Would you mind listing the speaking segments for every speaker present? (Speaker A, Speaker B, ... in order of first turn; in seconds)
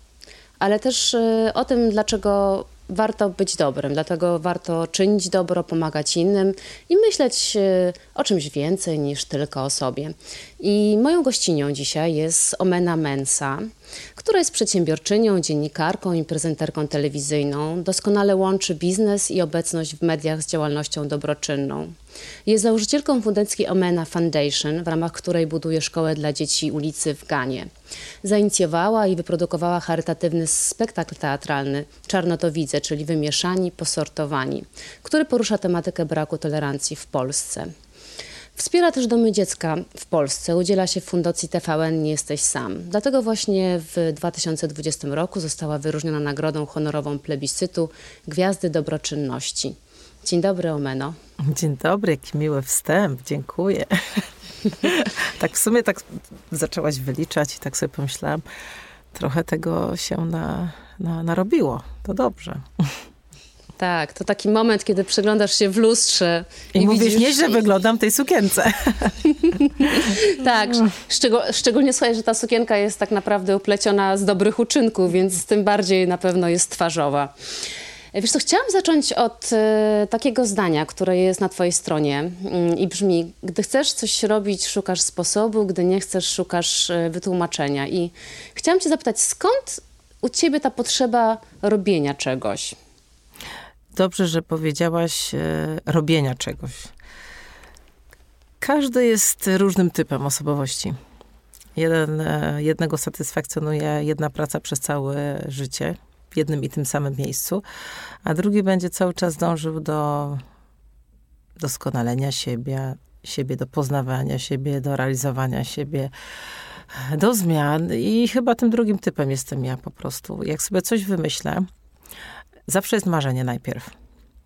Speaker A: 0.6-21.9, 22.4-27.7, 28.2-37.7, 38.5-51.1, 63.8-67.6, 69.4-77.3, 78.1-92.8
Speaker B: 51.4-58.4, 59.1-62.9, 66.7-69.2, 93.9-96.9, 98.6-101.0, 101.8-107.6, 108.2-110.4, 111.6-116.1, 116.9-121.7, 122.7-123.9